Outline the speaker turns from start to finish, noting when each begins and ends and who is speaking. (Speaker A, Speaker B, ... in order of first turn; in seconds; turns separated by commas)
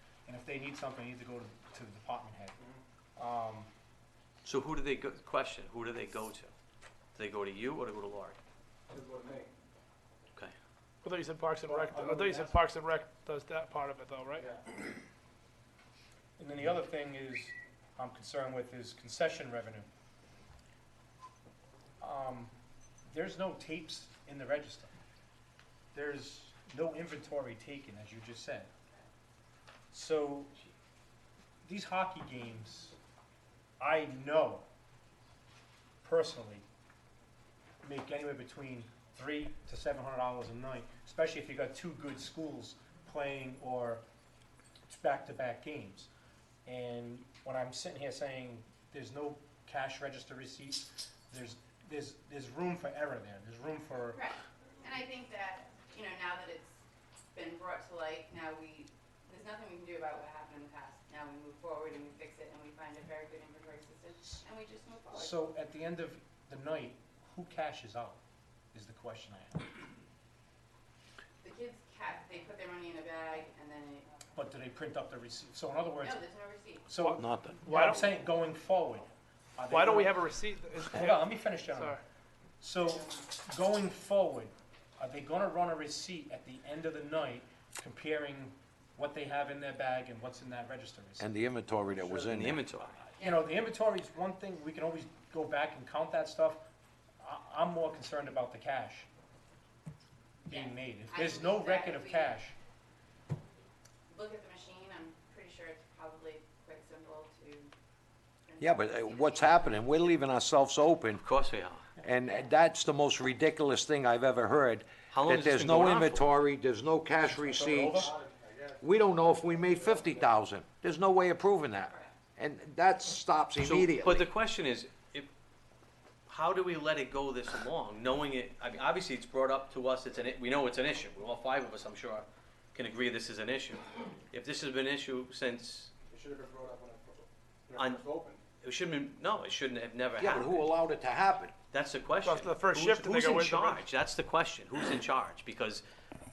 Speaker A: 0.3-2.6, Speaker A: 3.2-3.7, Speaker B: 4.4-6.5, Speaker B: 7.1-8.4, Speaker C: 8.9-9.5, Speaker D: 11.0-14.5, Speaker A: 11.7-12.5, Speaker A: 16.4-19.9, Speaker A: 22.0-22.5, Speaker A: 23.1-24.9, Speaker A: 25.9-28.7, Speaker A: 29.9-30.6, Speaker A: 31.6-33.0, Speaker A: 33.8-34.7, Speaker A: 36.0-36.6, Speaker A: 37.8-44.0, Speaker A: 44.9-46.1, Speaker A: 46.7-54.2, Speaker E: 54.1-56.8, Speaker E: 57.3-65.3, Speaker A: 65.1-68.2, Speaker A: 68.7-69.7, Speaker E: 71.4-74.2, Speaker A: 74.3-76.2, Speaker E: 76.0-76.9, Speaker A: 76.8-80.2, Speaker D: 77.0-78.1, Speaker B: 77.2-77.6, Speaker D: 79.7-82.0, Speaker A: 80.8-82.0, Speaker A: 82.6-91.3, Speaker E: 82.8-83.2, Speaker F: 91.2-92.6, Speaker B: 92.3-93.0, Speaker A: 93.2-96.6, Speaker E: 93.2-93.4, Speaker A: 97.2-99.1, Speaker E: 100.5-102.4, Speaker A: 100.5-102.5, Speaker E: 104.1-107.7, Speaker E: 108.5-109.8, Speaker F: 108.6-111.2, Speaker B: 111.2-112.0, Speaker F: 112.0-118.1, Speaker B: 115.1-116.3, Speaker A: 117.4-118.1, Speaker C: 117.5-120.4, Speaker F: 118.8-124.3, Speaker E: 121.9-122.2, Speaker B: 123.6-125.3, Speaker B: 126.3-135.9, Speaker C: 136.1-138.4, Speaker B: 137.7-138.1, Speaker B: 138.6-140.7, Speaker F: 140.2-141.5, Speaker B: 141.7-145.8, Speaker D: 142.2-143.8